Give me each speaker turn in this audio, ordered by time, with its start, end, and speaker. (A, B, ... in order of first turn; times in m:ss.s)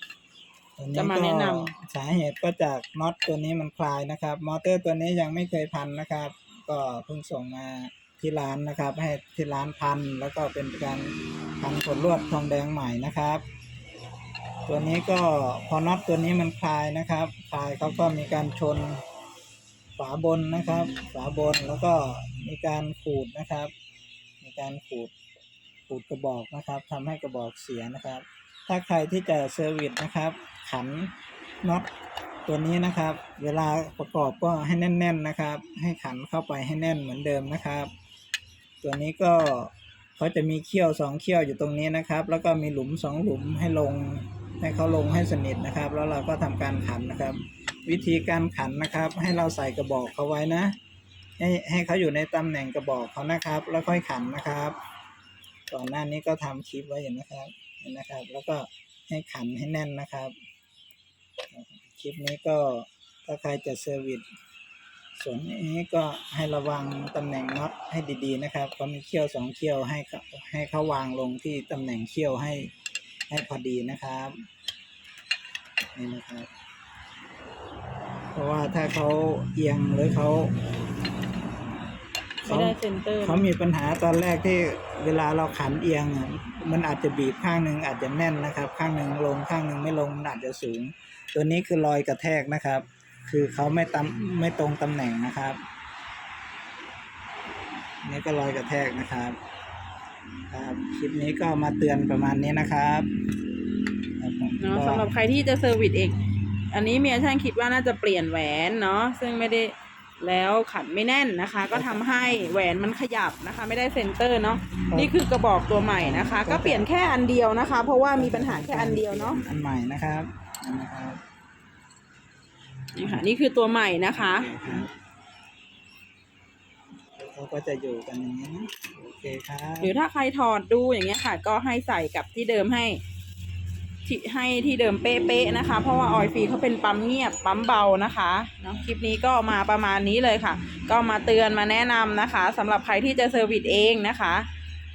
0:00.8-0:13.4 A
0:00.9-0:01.7 B
0:14.6-0:19.0 A
0:20.0-0:23.7 A
0:24.4-0:25.1 A
0:25.9-0:31.9 A
0:32.4-0:37.9 A
0:38.8-0:50.8 A
0:51.4-0:54.8 A
0:55.7-1:00.3 A
1:01.5-1:04.2 A
1:05.2-1:12.7 A
1:13.3-1:14.4 A
1:15.9-1:16.5 A
1:18.3-1:20.5 A
1:22.4-1:35.6 A
1:22.4-1:23.5 B
1:38.0-1:39.4 A
1:40.5-1:43.1 A
1:44.2-1:45.1 A
1:44.6-1:46.2 B
1:46.7-1:59.4 B
1:51.7-1:52.6 A
1:55.9-1:56.9 A
1:58.2-2:01.2 A
2:02.9-2:04.8 B
2:03.0-2:03.3 A
2:04.0-2:04.9 A
2:07.2-2:09.9 A
2:09.8-2:13.0 B
2:14.0-2:24.5 B